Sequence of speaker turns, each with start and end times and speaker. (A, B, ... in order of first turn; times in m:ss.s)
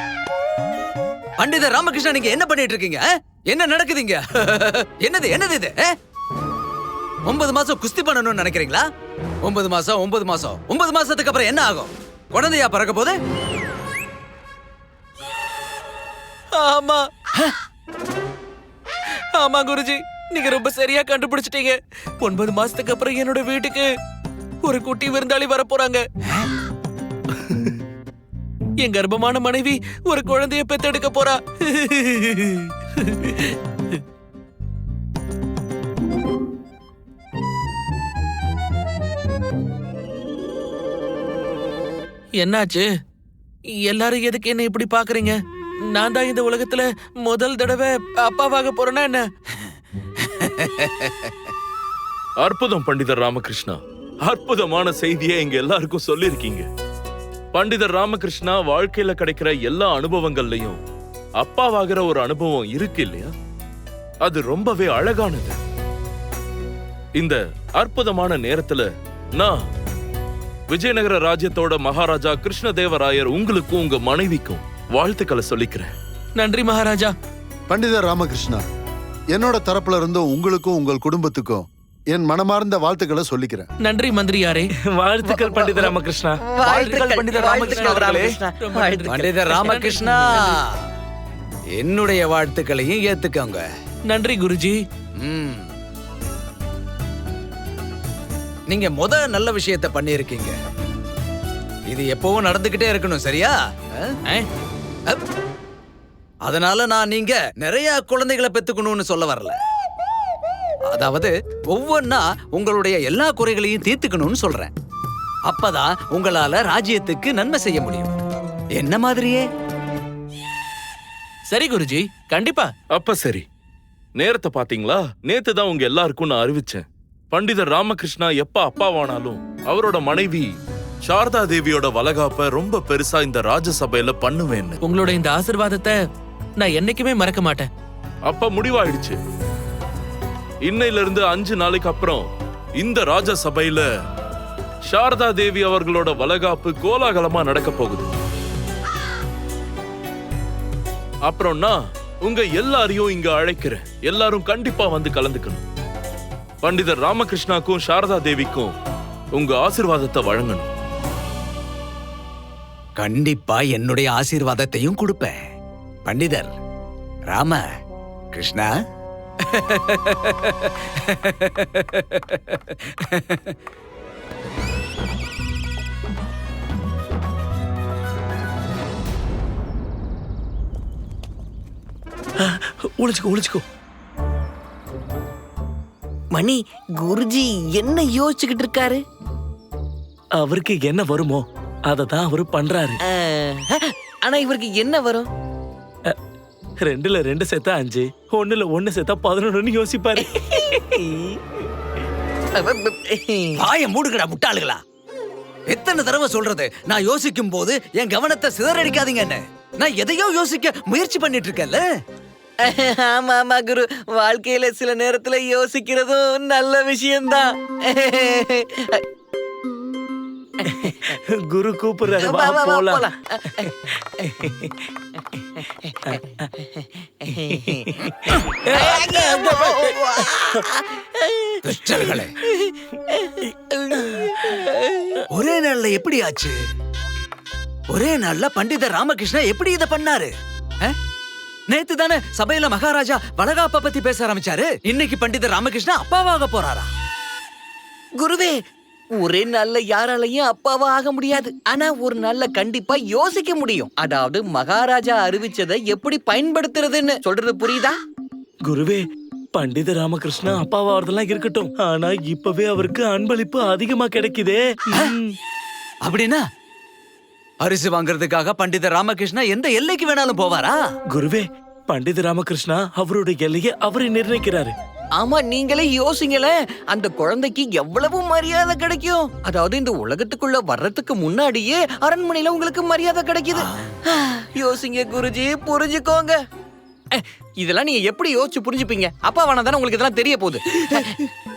0:01.4-0:06.0 A
0:07.2-0:08.8 A
0:09.4-0:13.2 A
0:16.6-0:17.0 B
0:19.4-0:23.9 B
0:24.6-0:26.0 B
0:28.8-0:34.0 B
0:42.4-0:42.9 B
0:43.8-0:45.4 B
0:45.9-0:49.2 B
0:50.2-0:51.3 A
0:52.4-0:56.6 C
0:57.5-1:00.8 C
1:01.4-1:03.3 C
1:04.2-1:05.6 C
1:07.2-1:09.6 C
1:10.7-1:15.9 C
1:16.4-1:17.1 B
1:17.7-1:18.6 D
1:19.3-1:23.7 D
1:23.8-1:24.7 B
1:24.8-1:26.4 E
1:25.2-1:29.3 F
1:26.6-1:30.6 B
1:26.8-1:27.5 D
1:27.5-1:28.3 A
1:29.1-1:30.5 A
1:31.8-1:33.6 A
1:34.1-1:34.8 B
1:35.2-1:35.7 A
1:38.7-1:40.6 A
1:41.9-1:44.1 A
1:46.4-1:49.6 A
1:50.9-1:54.7 A
1:55.5-1:58.2 A
1:58.8-1:59.4 A
2:01.5-2:02.7 B
2:02.9-2:03.4 C
2:04.2-2:10.5 C
2:11.0-2:14.8 C
2:14.8-2:16.0 B
2:16.6-2:17.7 B
2:18.3-2:19.2 C
2:20.6-2:22.2 C
2:22.8-2:23.8 C
2:24.9-2:28.1 C
2:31.2-2:35.6 C
2:36.6-2:38.7 C
2:39.3-2:40.6 C
2:43.0-2:45.4 A
2:46.0-2:46.5 A
2:47.3-2:47.6 A
2:48.3-2:48.7 A
2:49.4-2:53.6 A
3:02.4-3:03.6 E
3:06.3-3:09.0 F
3:10.4-3:13.0 E
3:13.0-3:15.3 F
3:16.8-3:20.2 E
3:20.2-3:21.4 F
3:22.6-3:23.6 F
3:23.6-3:24.8 A
3:25.7-3:31.8 A
3:32.6-3:39.0 F
3:40.8-3:41.1 F
3:41.3-3:43.0 E
3:42.2-3:43.7 F
3:47.4-3:47.8 F
3:48.6-3:52.2 F
3:51.6-3:52.3 A
3:53.2-3:55.2 F
3:55.3-3:56.5 A
3:57.9-4:00.3 A
4:01.7-4:06.9 A
4:08.2-4:08.6 F
4:09.1-4:18.0 F
4:18.6-4:19.0 E
4:19.5-4:25.3 E
4:26.0-4:26.4 A
4:27.6-4:30.8 A
4:31.1-4:34.7 E
4:35.2-4:46.4 F
4:47.1-4:51.2 F